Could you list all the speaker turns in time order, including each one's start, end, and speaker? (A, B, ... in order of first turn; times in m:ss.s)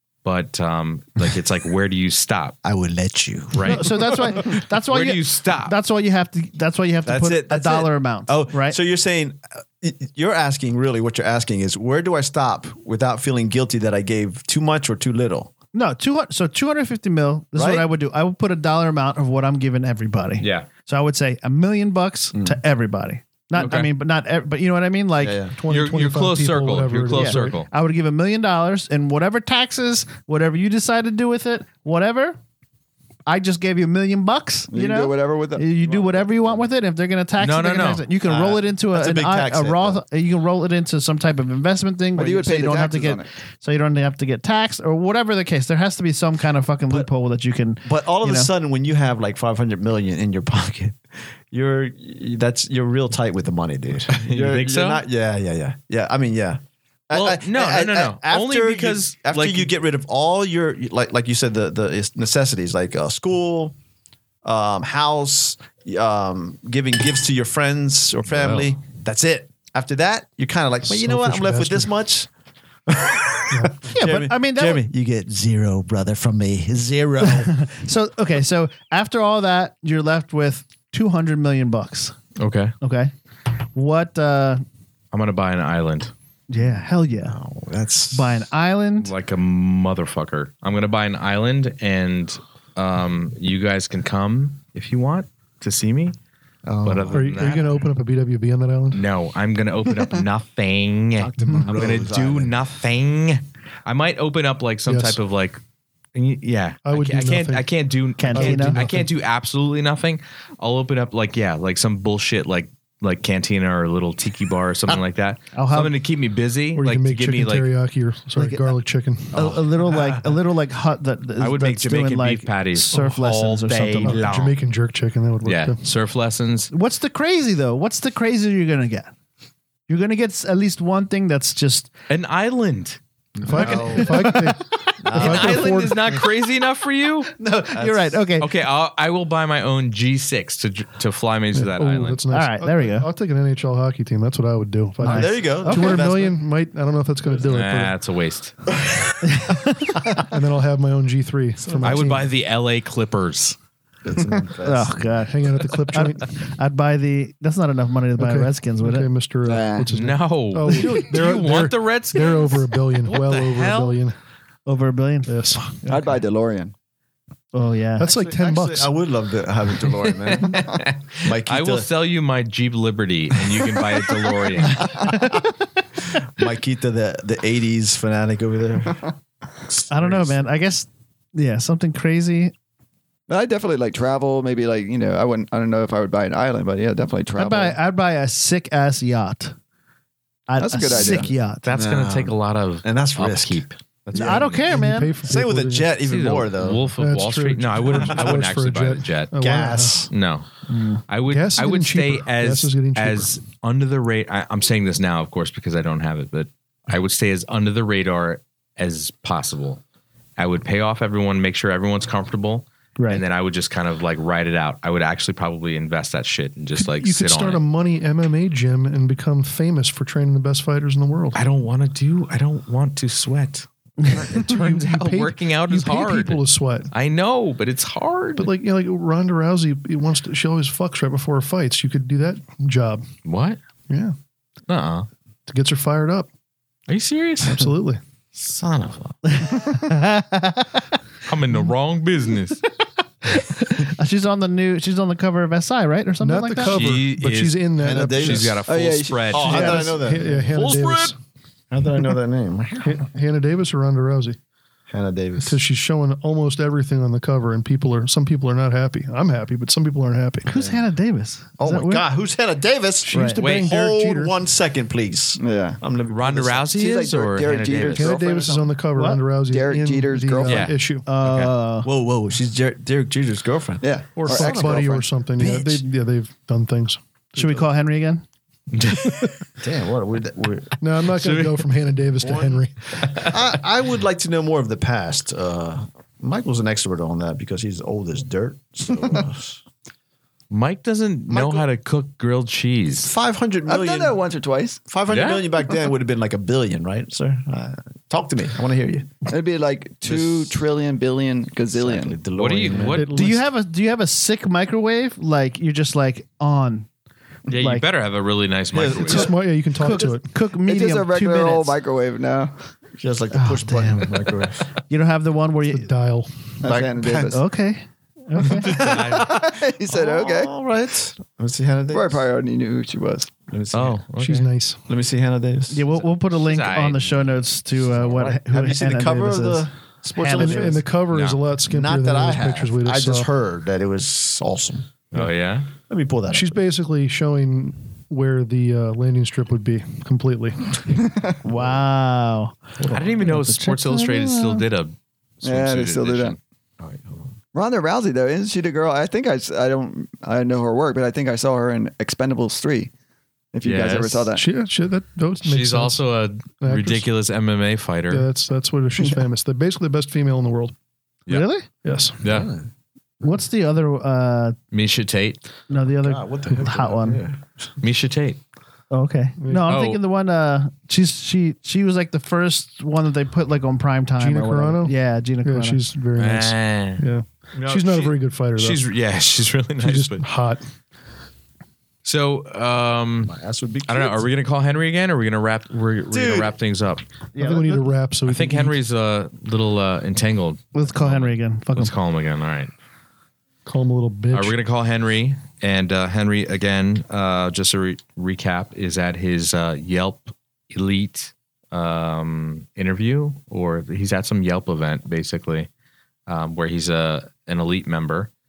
0:00.2-0:02.6 A
0:02.6-0:04.0 B
0:03.5-0:05.7 A
0:03.6-0:08.8 C
0:07.0-0:15.5 B
0:15.7-0:25.4 C
0:17.5-0:17.9 B
0:20.4-0:20.7 A
0:23.6-0:23.9 A
0:25.2-0:25.5 B
0:25.6-0:27.6 D
0:25.7-0:27.7 A
0:27.1-0:32.4 C
0:33.2-0:48.5 C
0:34.7-0:36.4 E
0:37.4-0:38.0 A
0:38.2-0:40.0 B
0:42.2-0:43.3 E
0:47.8-1:03.7 B
0:54.1-0:55.0 A
0:57.1-0:59.7 A
1:04.4-1:12.3 B
1:08.3-1:08.7 A
1:10.9-1:11.9 D
1:12.9-1:17.6 B
1:13.5-1:13.8 D
1:13.9-1:14.8 C
1:17.2-1:22.1 C
1:22.4-1:22.7 A
1:22.8-1:23.1 C
1:23.7-1:24.6 C
1:25.1-1:26.1 A
1:26.5-1:27.4 C
1:26.6-1:28.5 B
1:28.1-1:29.1 C
1:29.0-1:36.2 A
1:36.6-1:37.3 B
1:36.8-1:37.7 A
1:37.1-1:39.0 D
1:38.9-1:45.6 A
1:41.2-1:42.6 B
1:44.8-1:45.2 D
1:46.1-1:57.7 A
1:46.8-1:47.7 D
1:48.2-1:48.8 C
1:48.3-1:49.1 D
1:55.5-1:55.9 C
1:56.7-1:59.5 D
1:58.3-1:58.7 C
1:59.3-2:04.2 C
2:01.4-2:04.6 A
2:04.0-2:05.8 D
2:05.4-2:06.7 A
2:06.7-2:09.1 C
2:09.9-2:11.9 C
2:12.1-2:13.0 A
2:13.4-2:14.3 B
2:13.4-2:16.1 D
2:13.6-2:14.6 C
2:15.0-2:16.0 B
2:15.1-2:17.3 A
2:17.4-2:18.2 B
2:17.4-2:18.5 C
2:18.4-2:22.2 A
2:21.5-2:27.9 D
2:22.3-2:23.1 C
2:25.0-2:26.0 C
2:25.0-2:26.4 B
2:27.3-2:28.5 A
2:29.2-2:30.0 C
2:30.1-2:32.3 D
2:31.8-2:33.6 A
2:34.0-2:35.1 B
2:34.6-2:39.1 C
2:35.2-2:36.3 D
2:38.2-2:44.1 D
2:39.4-2:39.9 E
2:39.9-2:44.0 A
2:44.6-2:46.0 C
2:45.3-2:45.7 D
2:45.8-2:46.7 E
2:47.5-2:48.1 C
2:48.0-2:48.9 D
2:48.1-2:51.9 B
2:50.0-2:55.0 A
2:54.8-2:55.4 C
2:56.2-2:59.0 B
2:59.7-3:00.4 B
2:59.9-3:02.5 C
3:03.3-3:07.8 E
3:07.3-3:09.5 C
3:10.5-3:11.6 C
3:10.6-3:11.3 E
3:10.9-3:14.5 B
3:11.6-3:14.6 A
3:14.1-3:15.1 C
3:14.5-3:15.9 D
3:15.2-3:16.9 B
3:16.0-3:19.3 A
3:17.0-3:20.1 D
3:17.9-3:18.3 B
3:19.4-3:20.1 B
3:20.1-3:20.5 A
3:20.7-3:21.0 C
3:21.1-3:29.8 A
3:21.3-3:23.3 D
3:30.4-3:37.6 A
3:33.0-3:33.2 C
3:36.8-3:41.4 D
3:41.3-3:48.5 A
3:44.2-3:46.9 D
3:48.4-3:53.0 D
3:53.2-3:53.6 A
3:53.9-3:54.1 D
3:54.7-3:55.1 A
3:55.5-3:56.3 D
3:56.9-3:57.7 A
3:57.4-3:58.0 D
3:58.3-3:59.2 A
3:59.2-4:00.8 C
4:01.2-4:02.6 A
4:03.2-4:06.8 C
4:06.2-4:08.6 D
4:06.6-4:11.1 A
4:07.8-4:08.6 B
4:08.6-4:09.6 E
4:09.3-4:10.4 B
4:09.3-4:11.2 D
4:11.7-4:13.0 B
4:12.8-4:14.4 D
4:14.9-4:15.6 B
4:15.4-4:20.5 D
4:20.4-4:22.0 C
4:20.5-4:20.8 B
4:21.6-4:26.7 B
4:23.0-4:24.3 D
4:23.1-4:23.4 C
4:23.4-4:23.7 A
4:25.4-4:25.8 E
4:26.1-4:28.2 A
4:26.7-4:28.8 E
4:27.8-4:31.0 D
4:28.9-4:29.2 C
4:29.4-4:30.7 E
4:30.4-4:31.5 A
4:31.0-4:31.9 C
4:31.8-4:35.8 B
4:33.8-4:35.0 E
4:34.2-4:37.7 D
4:37.4-4:38.2 C
4:38.7-4:39.4 A
4:39.6-4:40.8 B
4:40.8-4:42.8 D
4:41.2-4:41.7 A
4:42.2-4:42.6 B
4:43.0-4:43.3 A
4:43.1-4:49.6 B
4:50.5-4:53.1 A
4:51.3-4:51.7 B
4:52.9-4:54.2 B
4:53.7-4:54.8 E
4:54.8-4:59.1 B
4:55.1-4:55.4 A
4:59.2-5:02.2 E
5:00.0-5:00.5 B
5:01.7-5:03.0 B
5:02.4-5:03.1 A
5:02.9-5:03.5 D
5:03.0-5:06.9 C
5:07.5-5:07.8 C
5:07.5-5:09.3 A
5:08.7-5:09.3 B
5:09.1-5:10.3 D
5:09.8-5:11.8 C
5:10.6-5:12.6 E
5:13.0-5:14.7 B
5:13.3-5:14.1 C
5:14.9-5:15.9 C
5:15.7-5:16.6 D
5:16.6-5:17.4 E
5:16.6-5:17.4 B
5:17.3-5:18.7 C
5:18.5-5:22.2 B
5:18.7-5:19.3 A
5:18.7-5:20.5 E
5:21.9-5:23.3 E
5:23.5-5:24.0 B
5:23.7-5:24.5 A
5:24.2-5:24.8 D
5:24.9-5:25.9 B
5:25.7-5:30.8 C
5:26.2-5:27.4 A
5:27.9-5:30.8 B
5:30.3-5:33.3 D
5:31.1-5:31.4 A
5:31.6-5:34.9 B
5:35.1-5:35.7 A
5:35.9-5:36.6 B
5:36.3-5:41.1 D
5:41.4-5:44.6 C
5:41.4-5:41.8 B
5:42.8-5:43.0 D
5:42.9-5:46.4 A
5:45.4-5:46.4 E
5:46.8-5:47.3 B
5:47.5-5:52.9 E
5:53.5-5:54.4 E
5:53.6-5:54.2 A
5:54.3-5:56.1 D
5:55.4-5:58.2 A
5:56.6-5:57.1 D
5:58.1-6:00.7 D
6:01.3-6:01.7 C
6:01.8-6:02.2 D
6:02.2-6:02.5 A
6:02.2-6:02.7 B
6:03.2-6:04.6 C
6:04.7-6:05.4 A
6:05.7-6:07.2 C
6:06.0-6:07.7 B
6:07.8-6:08.4 A
6:08.9-6:15.8 C
6:09.4-6:09.7 D
6:09.7-6:10.0 A
6:14.2-6:18.8 D
6:16.2-6:17.0 A
6:17.6-6:18.1 B
6:18.6-6:20.2 A
6:19.8-6:20.6 D
6:22.0-6:23.3 A
6:23.2-6:24.2 B
6:23.8-6:27.0 A
6:26.1-6:26.5 B
6:27.3-6:27.9 C
6:27.4-6:28.8 D
6:28.2-6:32.7 A
6:30.7-6:31.9 C
6:33.6-6:34.6 D
6:34.3-6:45.7 A
6:46.3-6:48.3 A